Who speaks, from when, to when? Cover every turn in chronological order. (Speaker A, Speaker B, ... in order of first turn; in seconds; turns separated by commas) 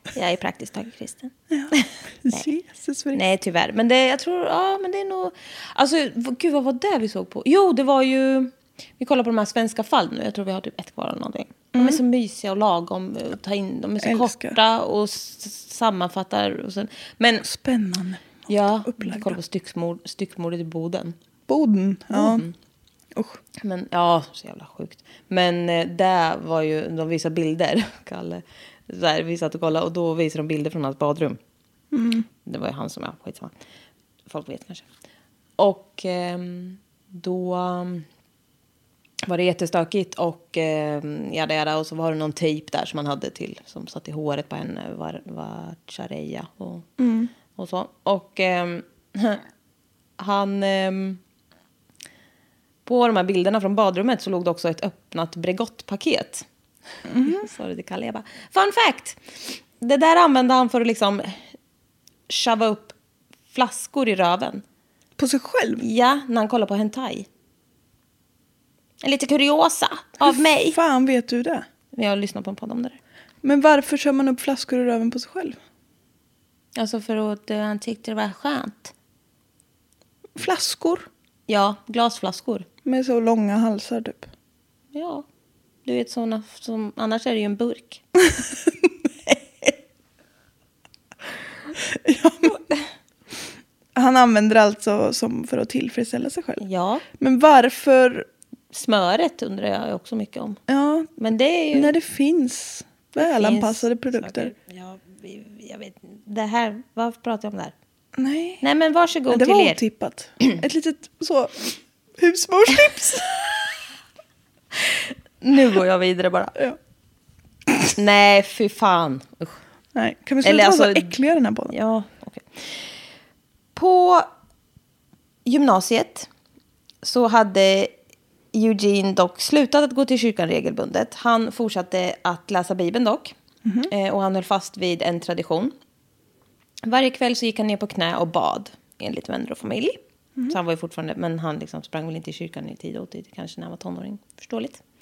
Speaker A: 0.1-2.5, Speaker B: 2.2-3.2, Speaker A: 3.1-17.4, Speaker B: 11.7-12.0, Speaker B: 14.0-14.6, Speaker B: 17.4-19.4, Speaker A: 18.5-21.1, Speaker B: 21.5-22.4, Speaker A: 22.1-22.5, Speaker B: 23.1-23.4, Speaker A: 23.6-31.4, Speaker B: 31.9-32.3, Speaker A: 32.4-33.5, Speaker A: 34.3-34.8, Speaker A: 35.6-38.0, Speaker A: 39.3-46.9, Speaker B: 47.0-47.3, Speaker A: 47.5-49.4, Speaker A: 50.2-51.2, Speaker A: 52.8-56.4, Speaker B: 57.1-57.5, Speaker A: 57.2-59.2, Speaker A: 59.8-61.4, Speaker A: 62.3-62.9, Speaker A: 63.5-64.6, Speaker B: 65.2-65.8, Speaker A: 65.8-67.3, Speaker A: 69.0-70.8, Speaker B: 70.7-71.7, Speaker A: 71.9-73.0, Speaker B: 73.4-75.6, Speaker A: 76.7-78.9, Speaker B: 80.3-81.1, Speaker A: 81.5-82.7, Speaker B: 82.8-84.3, Speaker A: 84.9-85.2, Speaker A: 85.8-88.0, Speaker B: 91.8-92.6, Speaker B: 93.9-96.6, Speaker A: 96.6-97.0, Speaker B: 97.2-98.3, Speaker A: 98.7-100.6, Speaker B: 100.7-101.1, Speaker A: 101.2-101.9, Speaker B: 101.7-104.5, Speaker A: 103.2-107.7, Speaker B: 108.2-108.6, Speaker A: 108.6-109.8, Speaker B: 109.3-113.4, Speaker A: 115.4-116.5, Speaker A: 118.0-119.6, Speaker B: 119.9-121.7, Speaker A: 120.4-121.2, Speaker A: 121.7-122.8, Speaker A: 123.7-124.2, Speaker A: 125.5-126.3, Speaker A: 127.0-127.9, Speaker A: 128.5-133.3, Speaker B: 133.6-133.9, Speaker A: 133.9-135.7, Speaker A: 136.8-144.8